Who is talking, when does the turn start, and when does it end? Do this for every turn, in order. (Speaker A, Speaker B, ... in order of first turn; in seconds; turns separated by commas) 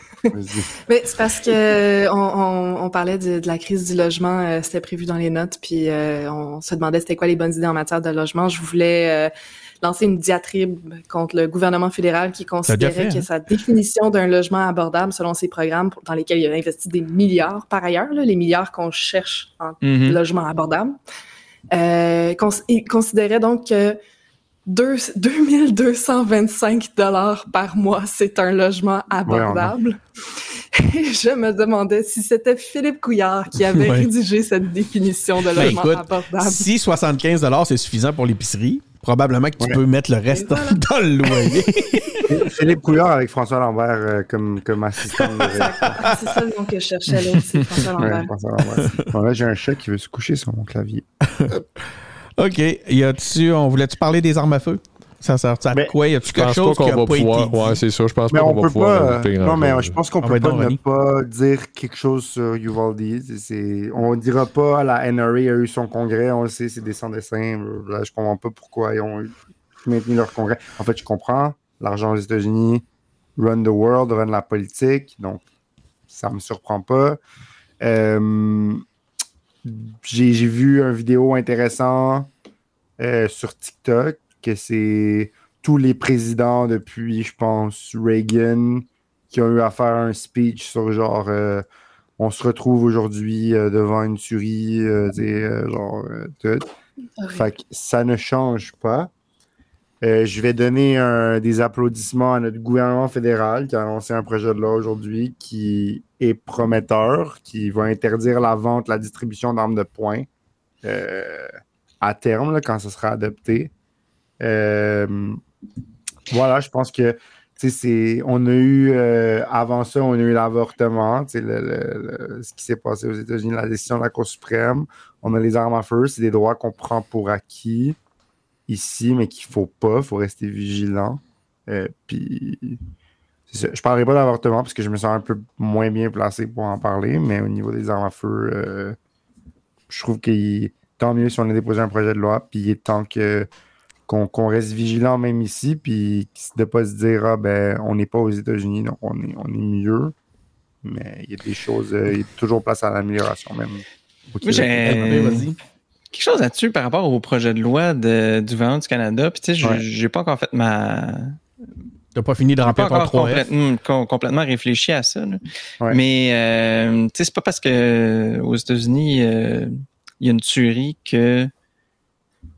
Speaker A: 0.3-0.7, Speaker B: 0.8-21.0, Speaker C: 12.7-13.2, Speaker D: 19.8-20.2, Speaker B: 21.7-24.0, Speaker B: 24.7-30.0, Speaker A: 29.2-29.7, Speaker B: 30.7-36.7, Speaker C: 33.7-34.1, Speaker C: 35.5-42.4, Speaker B: 40.3-41.6, Speaker A: 42.3-46.0, Speaker C: 45.2-46.2, Speaker B: 45.6-48.3, Speaker C: 47.2-47.7, Speaker A: 48.0-51.0, Speaker C: 48.7-49.1, Speaker C: 51.3-51.6, Speaker C: 52.4-57.8, Speaker E: 56.3-60.0, Speaker A: 58.3-69.3, Speaker C: 60.2-60.8, Speaker A: 69.8-72.8, Speaker A: 73.4-75.4, Speaker A: 76.1-77.2, Speaker A: 77.8-78.8, Speaker A: 79.6-82.3, Speaker A: 83.0-91.6, Speaker A: 92.2-96.7, Speaker B: 97.2-97.5, Speaker A: 97.3-99.1, Speaker A: 100.0-110.3, Speaker A: 110.8-113.7, Speaker A: 114.4-115.4, Speaker A: 116.3-128.0, Speaker A: 128.7-132.8, Speaker A: 133.5-139.0, Speaker A: 139.9-143.5, Speaker A: 144.1-150.1, Speaker A: 150.8-155.3, Speaker D: 154.4-155.5, Speaker C: 154.8-155.6, Speaker D: 156.1-161.4, Speaker C: 162.1-163.4, Speaker D: 162.6-171.5